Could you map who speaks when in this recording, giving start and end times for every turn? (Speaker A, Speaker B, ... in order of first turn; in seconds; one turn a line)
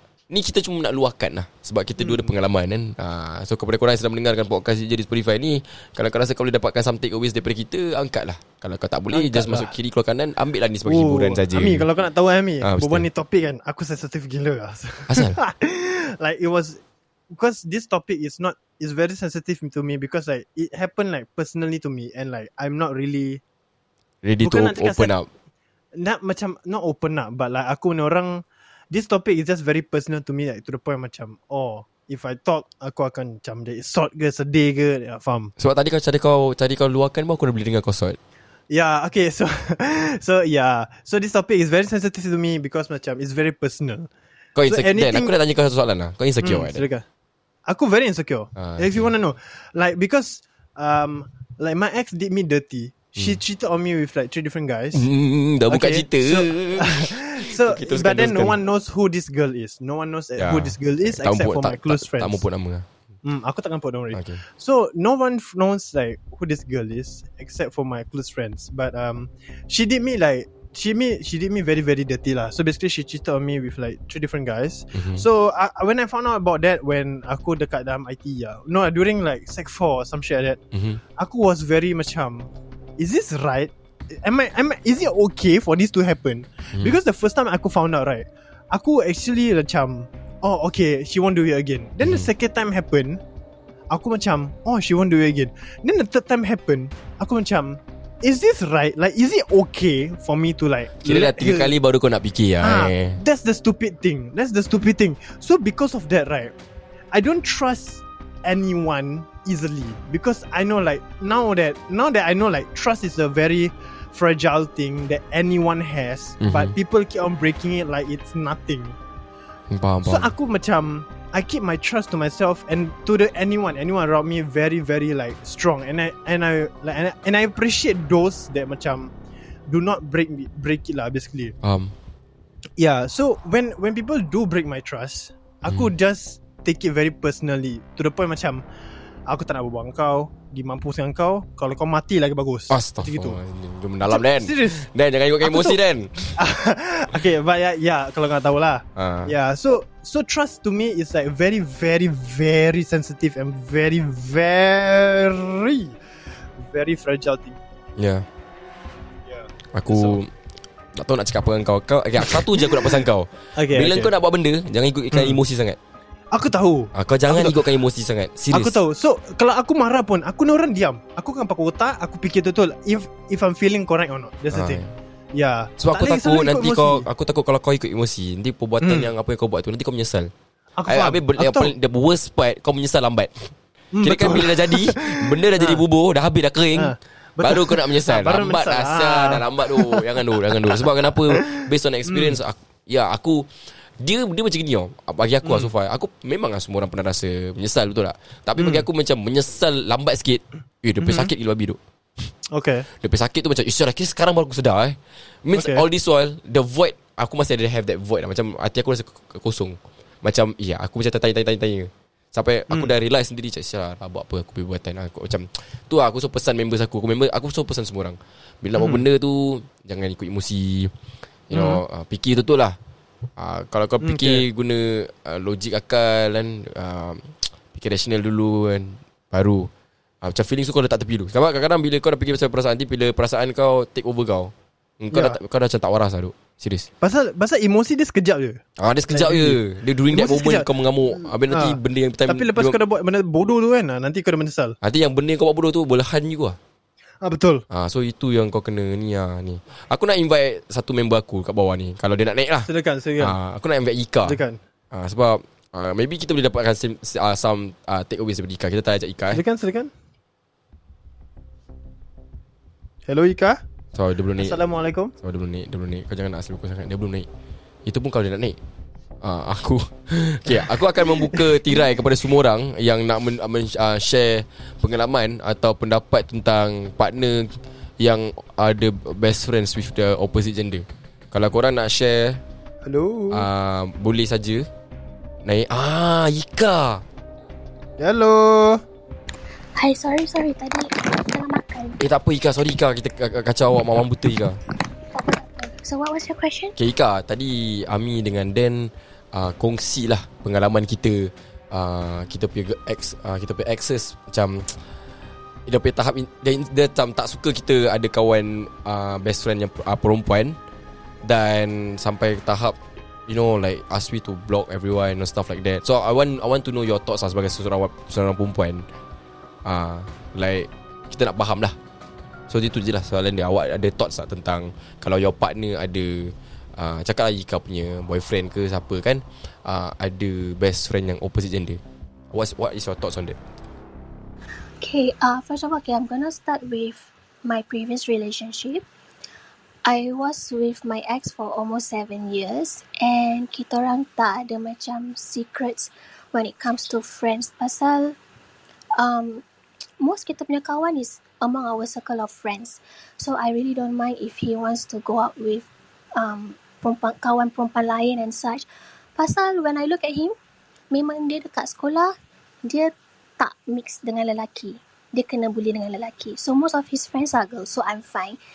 Speaker A: 0.3-11.9
Speaker B: 2.0-2.3
Speaker B: 9.1-9.7
Speaker B: 10.8-23.4
Speaker A: 12.6-13.1
Speaker A: 15.1-15.4
Speaker A: 24.2-25.3
Speaker B: 24.4-25.1
Speaker B: 26.0-35.5
Speaker A: 35.6-38.2
Speaker B: 38.7-44.1
Speaker A: 44.5-46.9
Speaker B: 44.7-45.3
Speaker B: 46.4-47.0
Speaker B: 47.7-55.1
Speaker A: 48.6-49.1
Speaker A: 54.9-58.6
Speaker B: 55.7-62.4
Speaker A: 60.4-62.9
Speaker B: 63.2-80.6
Speaker A: 64.1-64.4
Speaker A: 74.9-75.2
Speaker A: 80.7-81.0
Speaker B: 81.2-93.2
Speaker A: 92.0-92.3
Speaker B: 93.9-101.7
Speaker A: 101.0-103.2
Speaker B: 102.6-106.5
Speaker B: 107.1-119.0
Speaker A: 116.4-116.8
Speaker A: 119.7-120.3
Speaker B: 120.0-129.1
Speaker B: 129.7-131.6
Speaker A: 131.6-131.9
Speaker B: 132.8-138.6
Speaker B: 139.3-143.4
Speaker A: 142.7-146.4
Speaker B: 144.1-144.9
Speaker B: 145.4-145.8
Speaker B: 146.4-156.0
Speaker A: 149.0-149.3
Speaker B: 156.6-157.6
Speaker A: 158.0-158.3
Speaker B: 159.3-160.2
Speaker A: 159.7-160.3
Speaker A: 161.0-165.8
Speaker B: 162.2-163.0
Speaker B: 163.6-164.1
Speaker B: 165.1-165.4
Speaker B: 166.3-167.6
Speaker A: 166.9-168.8
Speaker B: 168.5-174.8
Speaker A: 174.5-174.9
Speaker B: 175.3-177.1
Speaker A: 175.8-180.3
Speaker B: 178.8-179.1
Speaker B: 180.8-181.7
Speaker A: 180.9-193.5
Speaker B: 183.9-185.8
Speaker B: 186.8-192.4
Speaker A: 194.0-201.8
Speaker B: 195.4-195.7
Speaker B: 198.6-198.9
Speaker B: 201.0-201.3
Speaker B: 202.5-202.9
Speaker A: 203.0-220.9
Speaker B: 205.5-205.8
Speaker B: 218.8-219.0
Speaker A: 221.5-222.8
Speaker B: 221.5-221.8
Speaker A: 223.4-229.7
Speaker B: 224.0-224.4
Speaker A: 230.2-236.9
Speaker B: 235.1-235.4
Speaker B: 237.0-240.7
Speaker A: 238.8-242.8
Speaker B: 241.2-244.8
Speaker A: 244.8-246.6
Speaker B: 247.2-247.7
Speaker A: 247.7-254.4
Speaker B: 252.7-253.4
Speaker B: 254.2-254.6
Speaker A: 254.9-259.4
Speaker B: 259.3-259.9
Speaker B: 263.1-263.6
Speaker A: 263.9-264.7
Speaker B: 264.4-265.1
Speaker A: 265.2-267.3
Speaker A: 267.9-268.6
Speaker A: 269.2-282.4
Speaker B: 270.5-271.7
Speaker B: 282.9-283.5
Speaker A: 283.3-284.7
Speaker A: 285.4-287.0
Speaker B: 288.0-288.8
Speaker C: 289.8-292.0
Speaker A: 292.0-294.6
Speaker C: 295.1-296.8
Speaker A: 296.8-304.7
Speaker A: 305.7-310.6
Speaker A: 311.2-318.8
Speaker A: 319.6-321.8
Speaker A: 322.5-331.8
Speaker A: 332.3-333.4
Speaker C: 334.8-338.8
Speaker C: 339.9-348.2
Speaker C: 349.0-349.4
Speaker C: 350.0-358.7
Speaker C: 359.2-360.4
Speaker C: 360.9-362.1
Speaker C: 362.6-368.4